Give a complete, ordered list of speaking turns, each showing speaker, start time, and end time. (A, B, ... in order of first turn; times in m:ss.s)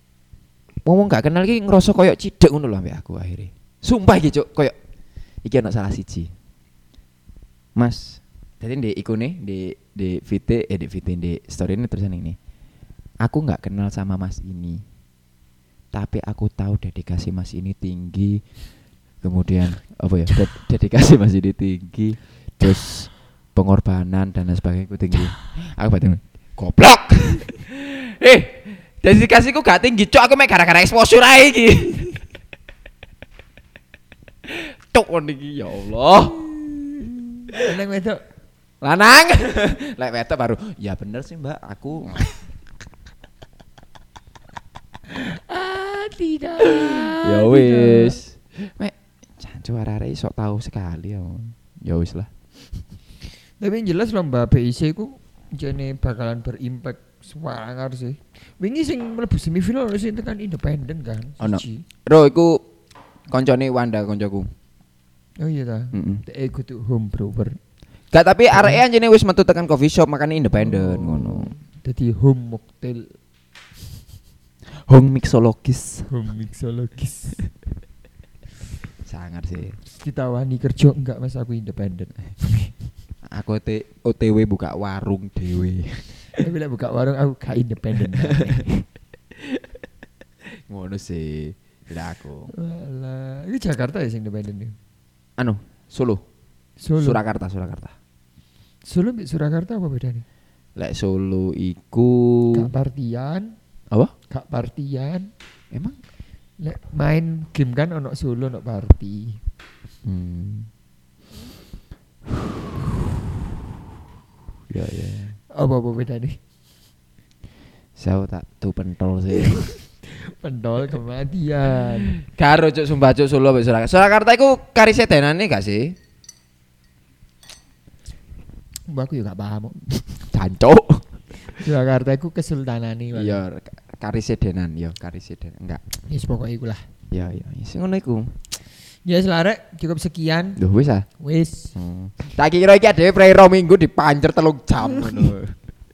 0:00.8-0:04.7 A
0:05.4-0:06.3 A
0:07.8-0:12.4 A
0:13.2-0:14.8 A
0:15.9-0:18.4 A
0:19.2-0:32.2 A
0:34.4-0:36.5 A
0:37.5-0:38.2 B
0:38.8-0:42.3 A
0:45.1-0:48.2 B
0:46.6-0:52.3 A
0:53.6-1:01.8 B
1:01.4-1:02.6 A
1:03.3-1:04.5 A
1:05.4-1:07.6 B
1:05.9-1:06.2 A
1:08.1-1:11.5 A
1:08.5-1:08.8 B
1:10.6-1:13.1 B
1:14.9-1:16.1 A
1:16.1-1:17.4 B
1:19.0-1:19.8 A
1:19.9-1:22.7 B
1:23.3-1:26.0 A
1:26.4-1:28.8 B
1:28.1-1:28.6 A
1:29.4-1:29.7 A
1:30.7-1:32.5 A
1:32.5-1:34.7 B
1:35.4-1:36.2 A
1:36.8-1:37.2 B
1:37.0-1:37.9 A
1:38.9-1:40.2 B
1:40.8-1:42.7 A
1:42.5-1:43.5 B
1:44.3-1:45.3 B
1:45.7-1:46.0 A
1:46.6-1:49.4 B
1:50.0-1:50.7 A
1:54.7-1:55.4 A
1:55.5-1:56.4 B
1:58.0-1:59.6 A
1:59.5-2:02.1 B
2:02.1-2:05.9 A
2:08.9-2:09.8 B
2:10.1-2:11.0 A
2:11.6-2:13.4 B
2:13.1-2:15.8 A
2:16.1-2:16.8 B
2:17.1-2:18.3 A
2:19.0-2:20.6 B
2:20.6-2:21.0 A
2:21.2-2:21.7 B
2:21.7-2:25.5 A